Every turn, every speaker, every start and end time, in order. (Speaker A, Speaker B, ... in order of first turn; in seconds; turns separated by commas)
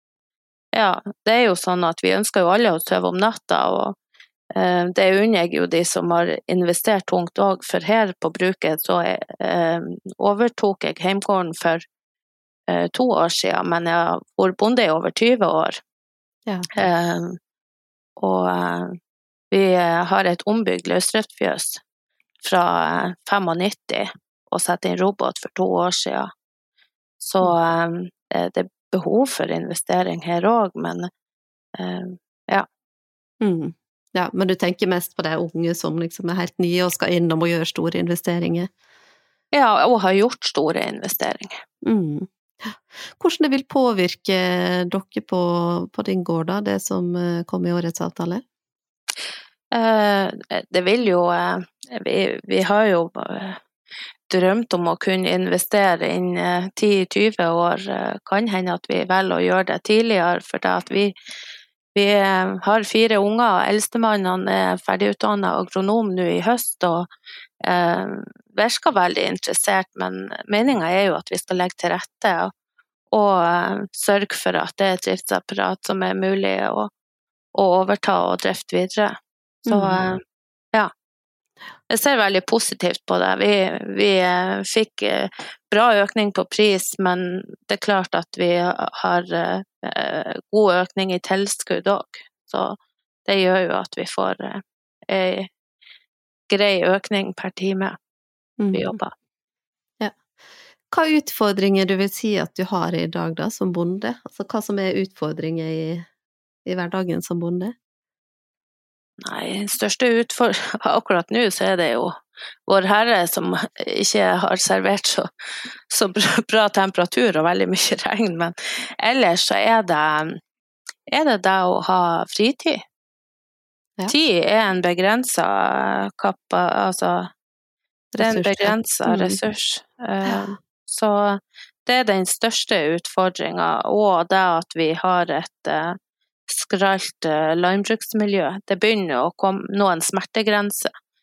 Speaker A: 0.7-4.0, Speaker A: 4.5-11.8, Speaker A: 12.7-15.8, Speaker A: 16.7-17.4, Speaker A: 18.2-18.9, Speaker A: 19.5-21.8, Speaker A: 22.4-26.3, Speaker A: 27.2-31.1, Speaker A: 31.8-32.6, Speaker B: 33.4-38.7, Speaker A: 39.5-41.6, Speaker B: 41.8-48.4, Speaker A: 49.7-53.6, Speaker A: 54.3-61.1, Speaker A: 61.9-67.1, Speaker A: 67.6-72.5, Speaker A: 73.1-76.9, Speaker A: 77.5-80.2, Speaker B: 79.7-80.0, Speaker A: 81.9-95.5, Speaker A: 96.5-98.0, Speaker B: 98.6-98.9, Speaker A: 98.7-99.1, Speaker B: 100.9-106.1, Speaker B: 106.6-107.7, Speaker A: 109.2-115.3, Speaker A: 115.9-120.4, Speaker A: 121.1-122.8, Speaker A: 124.1-127.3, Speaker B: 128.1-129.4, Speaker A: 128.2-140.9, Speaker B: 130.2-130.5